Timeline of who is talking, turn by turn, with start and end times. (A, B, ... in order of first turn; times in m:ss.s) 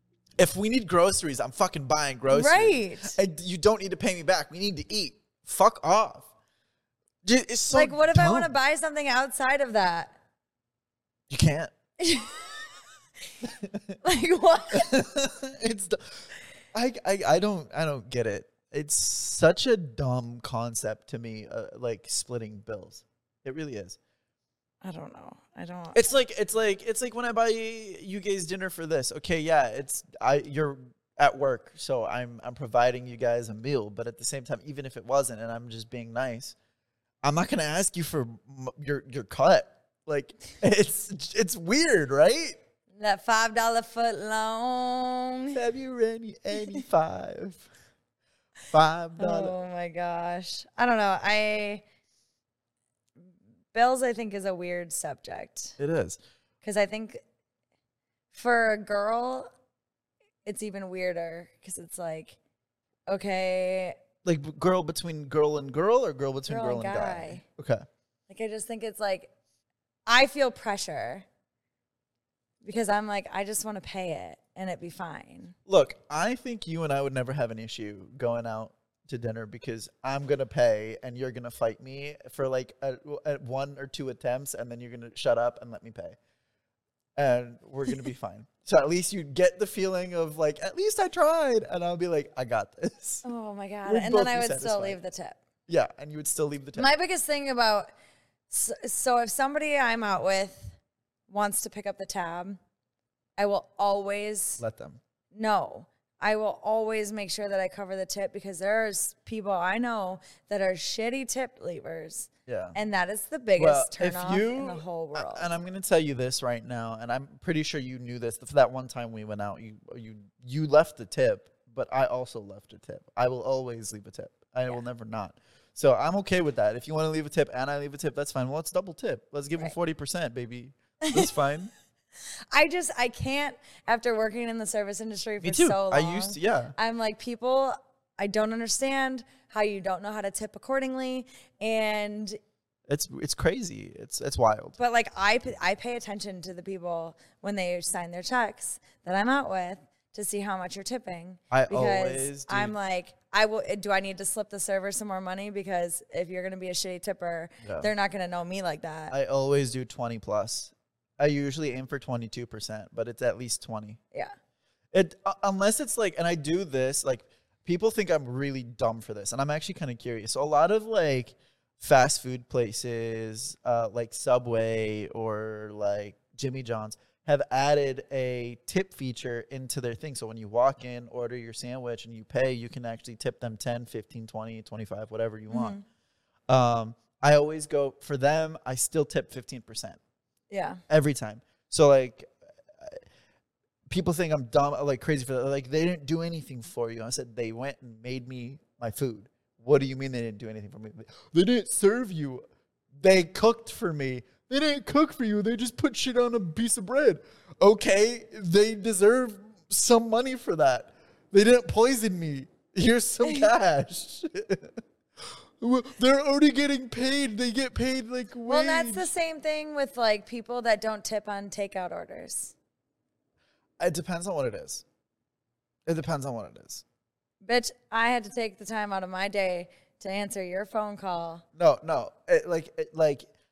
0:00.4-0:06.3 A
0:02.3-0:03.2 B
0:07.2-0:08.5 A
0:07.7-0:10.2 B
0:11.3-0:11.7 A
0:12.0-0:12.6 B
0:13.4-0:13.9 A
0:14.0-0:14.9 B
0:14.7-0:24.0 A
0:24.8-0:26.1 B
0:25.9-0:36.5 A
0:37.2-0:42.6 A
0:42.9-0:45.6 B
0:45.5-0:47.7 A
0:48.7-0:49.5 A
0:49.2-0:51.8 B
0:53.7-0:55.8 B
0:55.8-0:56.2 A
0:56.6-0:57.2 B
0:58.3-0:59.5 B
1:00.4-1:02.4 B
1:03.1-1:04.0 B
1:04.2-1:07.8 A
1:06.5-1:07.4 B
1:08.3-1:09.3 B
1:10.0-1:11.2 B
1:12.6-1:15.5 B
1:15.7-1:26.2 A
1:27.2-1:33.2 A
1:33.2-1:35.4 B
1:33.8-1:35.0 A
1:35.7-1:36.9 A
1:36.7-1:37.9 B
1:38.5-1:40.8 B
1:41.3-1:42.6 B
1:43.4-1:44.6 B
1:44.6-1:45.0 A
1:45.3-1:55.5 B
1:52.4-1:52.8 A
1:53.6-2:11.7 A
2:11.0-2:11.3 B
2:12.5-2:22.4 B
2:15.4-2:16.7 A
2:22.9-2:24.8 A
2:24.8-2:39.1 B
2:31.5-2:32.7 A
2:37.6-2:37.9 A
2:39.1-2:44.0 A
2:44.9-3:05.8 A
3:05.5-3:05.8 B
3:06.5-3:10.0 A
3:10.5-3:10.8 B
3:10.9-3:13.0 A
3:13.9-3:22.4 A
3:23.0-3:34.7 A
3:35.6-3:39.1 A
3:38.5-3:42.5 B
3:43.8-3:44.8 A
3:45.9-3:46.8 A
3:47.4-3:51.4 B
3:51.6-3:53.2 A